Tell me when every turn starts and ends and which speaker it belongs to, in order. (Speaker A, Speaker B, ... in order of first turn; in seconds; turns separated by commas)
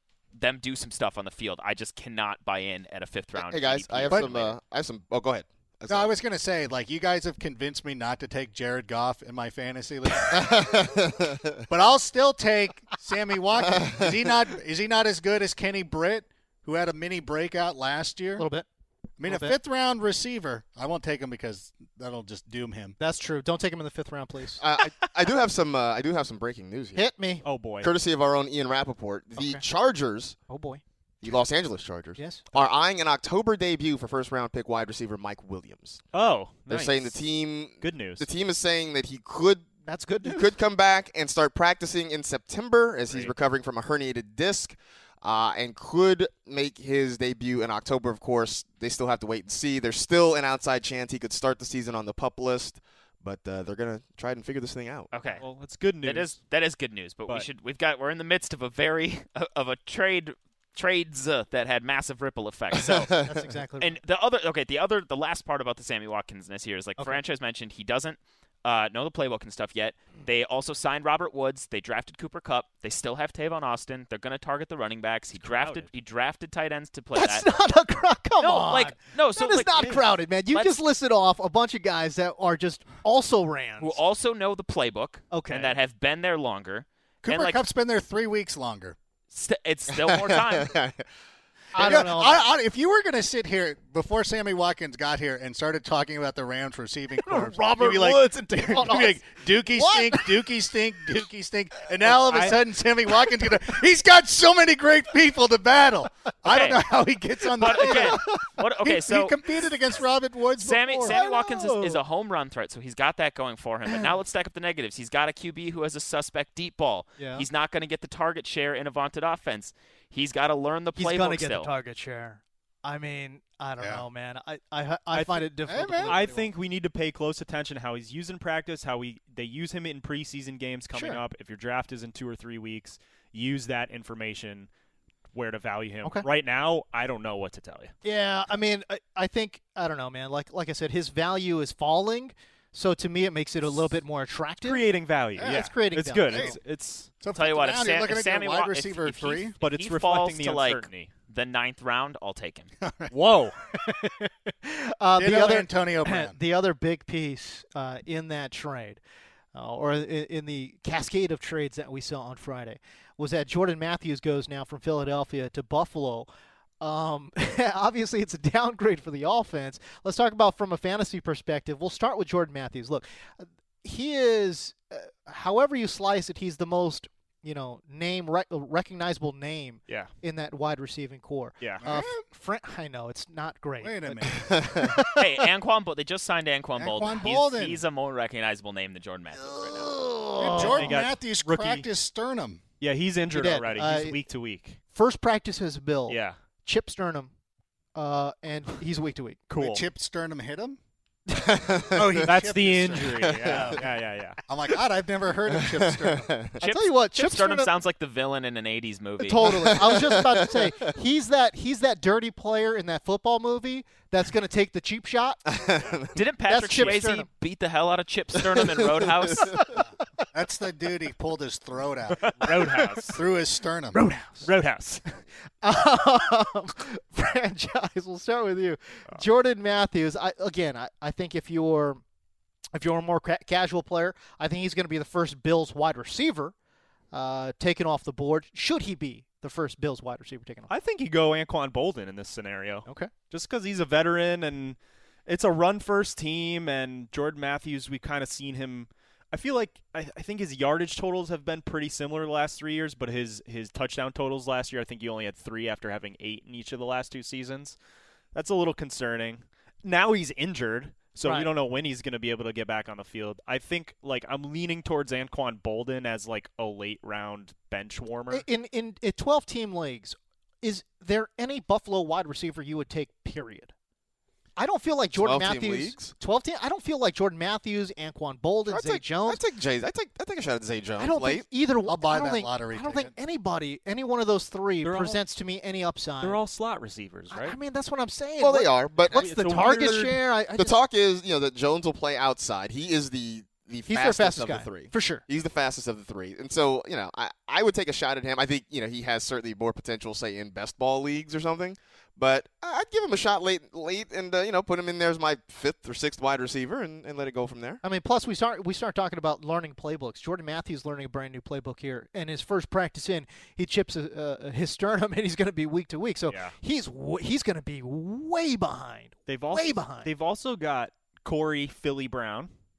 Speaker A: 0.3-4.6, Speaker B: 3.4-6.1, Speaker C: 5.9-10.9, Speaker B: 10.3-11.6, Speaker C: 11.7-18.5, Speaker B: 13.6-14.4, Speaker D: 18.4-18.7, Speaker C: 19.2-23.0, Speaker D: 19.3-19.6, Speaker D: 23.0-24.6, Speaker B: 24.6-27.0, Speaker D: 27.0-27.4, Speaker E: 27.4-27.9, Speaker B: 27.8-30.4, Speaker D: 29.4-29.6, Speaker D: 30.5-30.8, Speaker B: 31.2-36.0, Speaker D: 32.2-32.5, Speaker E: 36.1-37.2, Speaker B: 36.7-39.7, Speaker E: 37.8-38.3, Speaker D: 39.9-40.5, Speaker B: 40.2-55.1, Speaker A: 55.1-55.5, Speaker E: 55.4-56.4, Speaker A: 56.0-63.1, Speaker B: 62.7-63.4, Speaker D: 63.2-64.0, Speaker A: 63.8-77.5, Speaker E: 75.4-75.9, Speaker D: 77.2-84.0, Speaker A: 78.4-80.8, Speaker A: 83.8-87.6, Speaker D: 85.3-85.8, Speaker C: 87.2-89.0, Speaker A: 89.3-90.7, Speaker B: 89.9-91.0, Speaker D: 91.8-92.4, Speaker C: 91.8-108.2, Speaker D: 97.2-100.4, Speaker E: 102.1-102.6, Speaker A: 106.5-106.8, Speaker A: 107.6-109.4, Speaker D: 107.6-108.4, Speaker C: 108.8-111.2, Speaker A: 110.6-121.7, Speaker D: 111.1-112.0, Speaker D: 117.2-117.5, Speaker D: 121.0-126.5, Speaker C: 123.8-124.0, Speaker E: 125.1-134.7, Speaker C: 125.7-126.3, Speaker D: 130.9-131.2, Speaker E: 135.3-137.9, Speaker D: 138.0-144.8, Speaker E: 144.6-147.1, Speaker C: 145.4-145.7, Speaker D: 145.4-146.6, Speaker C: 146.3-146.6, Speaker C: 147.2-149.6, Speaker A: 147.3-152.7, Speaker E: 149.6-151.1, Speaker C: 152.8-153.2, Speaker E: 153.1-153.6, Speaker D: 153.7-159.0, Speaker C: 155.2-156.4, Speaker D: 159.5-166.3, Speaker D: 166.8-185.2, Speaker C: 181.8-182.2, Speaker C: 183.8-184.9, Speaker B: 184.3-184.9, Speaker A: 185.2-190.0, Speaker C: 186.8-187.8, Speaker D: 189.5-190.9, Speaker C: 190.4-192.6, Speaker E: 190.5-191.9, Speaker E: 192.8-194.8, Speaker D: 193.3-194.2, Speaker D: 194.9-197.3, Speaker E: 196.1-196.4, Speaker D: 197.9-199.5, Speaker E: 199.5-199.8, Speaker C: 199.6-200.8, Speaker B: 201.3-202.3, Speaker C: 201.9-203.8, Speaker E: 202.2-204.4, Speaker B: 203.0-203.8, Speaker C: 204.5-206.3, Speaker B: 205.6-206.6, Speaker D: 206.6-207.7, Speaker A: 206.6-209.7, Speaker D: 209.2-215.4, Speaker B: 209.4-210.9, Speaker B: 215.5-216.2, Speaker A: 216.1-219.8, Speaker D: 216.5-217.3, Speaker B: 218.5-219.6, Speaker C: 220.3-224.0, Speaker E: 222.4-223.2, Speaker A: 222.4-222.7, Speaker D: 223.9-224.5, Speaker E: 224.4-225.0, Speaker D: 225.6-232.0, Speaker D: 232.7-236.5, Speaker D: 237.1-240.7, Speaker E: 240.7-257.8, Speaker D: 242.9-243.1, Speaker E: 258.3-268.4, Speaker D: 261.2-261.5, Speaker D: 268.3-273.7, Speaker D: 274.6-279.4, Speaker B: 275.1-276.1, Speaker B: 278.7-281.4, Speaker D: 281.0-286.4, Speaker C: 281.9-283.1, Speaker E: 284.8-285.2, Speaker E: 286.2-287.6, Speaker D: 287.3-290.8, Speaker B: 288.4-290.0, Speaker E: 289.1-290.2, Speaker B: 290.6-307.8, Speaker D: 293.9-295.2, Speaker D: 307.8-320.1, Speaker E: 316.3-316.6, Speaker E: 319.3-322.5